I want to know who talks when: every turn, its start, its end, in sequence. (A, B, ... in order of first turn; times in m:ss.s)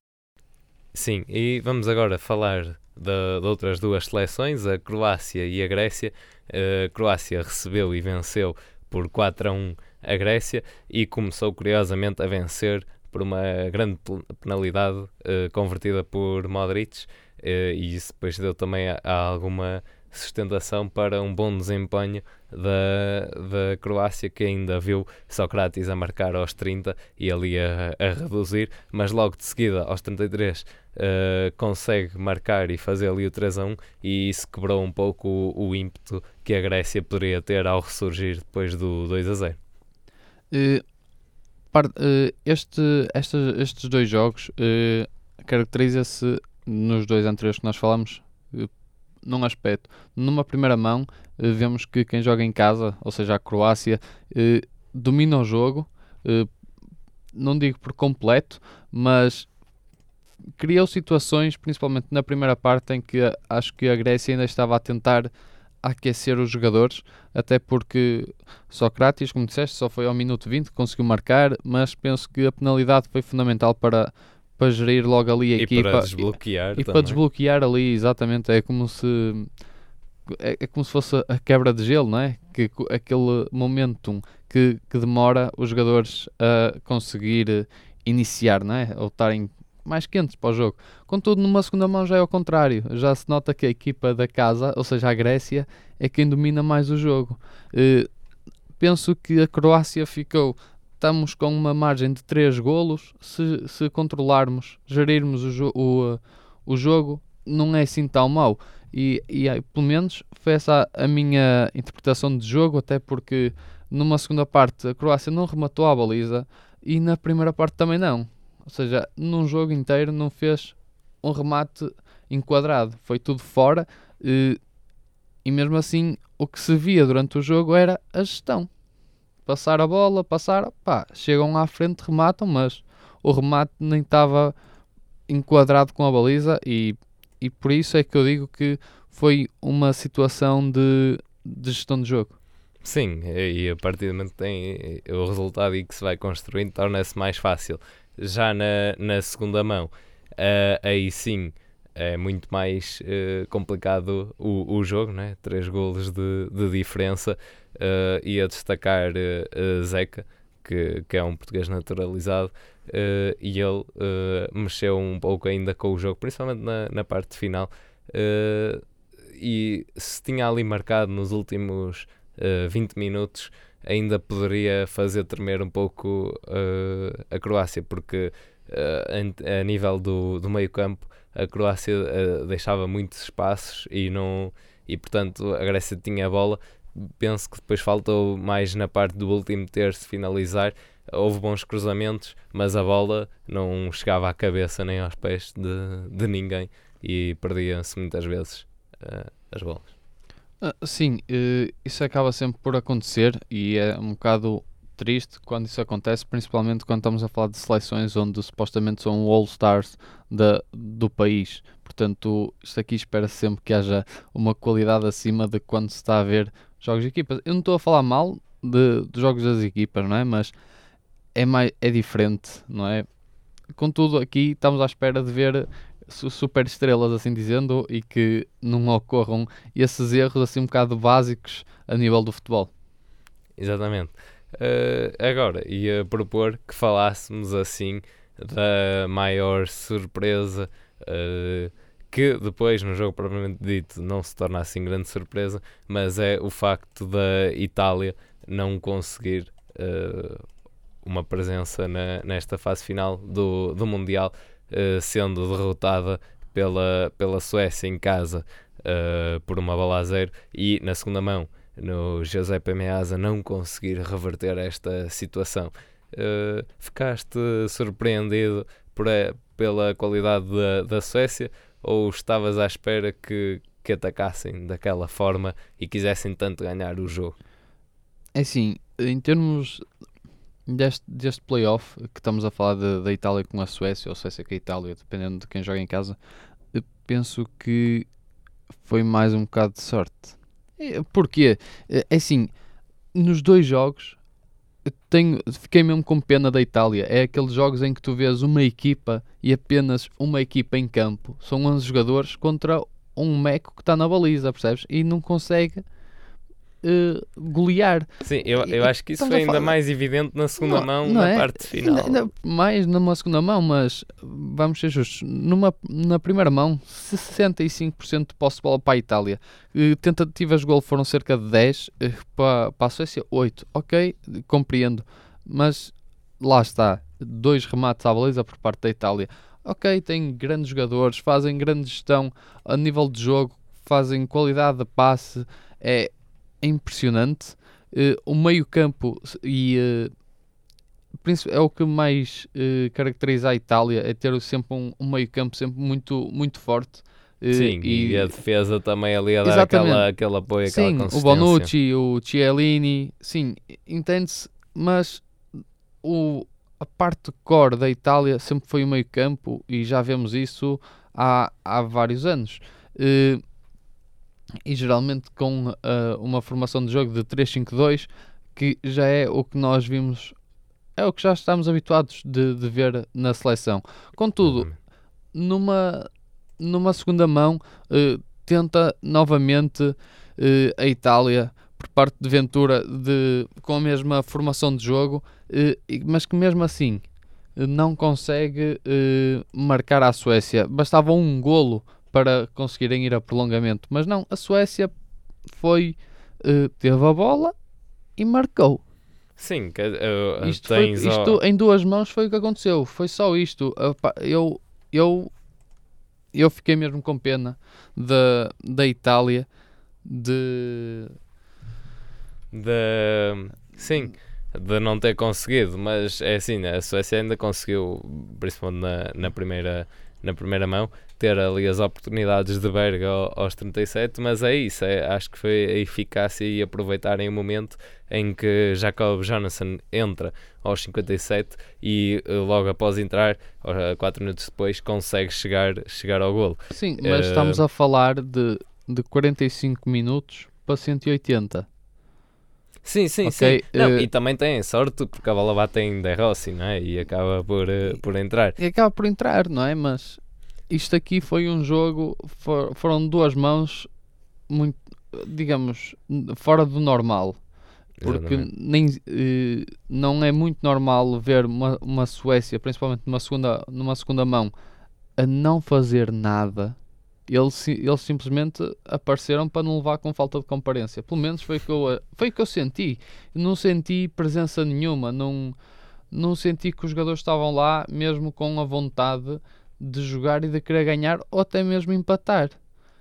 0:00.9-0:39.6 A
0:40.5-0:40.8 B
0:41.7-0:48.7 B
0:49.2-0:56.5 B
0:57.3-0:59.5 B
1:00.6-1:05.3 B
1:05.8-1:19.5 B
1:15.6-1:17.2 A
1:20.3-1:38.1 B
1:38.8-2:04.6 B
2:05.4-2:08.7 B
2:09.5-2:14.5 B
2:15.3-2:22.4 B
2:22.8-2:48.8 A
2:49.4-3:19.9 A
3:20.6-3:40.5 B
3:41.4-3:43.1 B
3:43.8-3:52.7 B
3:53.6-4:10.4 A
4:11.0-4:37.4 A
4:38.4-4:39.8 B
4:40.7-4:46.2 B
4:46.7-4:48.1 B
4:48.8-4:52.5 B
4:53.1-4:54.2 B
4:54.9-5:05.8 B
5:06.8-5:09.7 B
5:08.2-5:12.2 A
5:10.6-5:40.1 B
5:41.2-5:48.3 B
5:47.5-5:51.7 A
5:49.4-5:50.1 B
5:50.7-5:55.3 B
5:56.0-6:03.4 B
6:04.7-6:10.4 B
6:11.0-6:14.7 B
6:14.4-6:14.8 A
6:15.3-6:27.0 B
6:27.6-6:34.9 B
6:35.5-6:37.6 B
6:38.2-6:38.8 B
6:39.4-6:41.4 A
6:40.4-6:45.3 B
6:46.3-6:49.5 B
6:50.0-6:51.2 B
6:52.5-7:17.6 A
7:16.7-7:21.7 B
7:22.8-7:28.6 A
7:23.2-7:24.1 B
7:28.6-7:33.9 B
7:34.5-7:37.4 B
7:38.0-7:38.5 A
7:38.0-7:44.5 B
7:45.2-7:46.8 B
7:47.3-7:55.6 B
7:56.1-8:02.6 B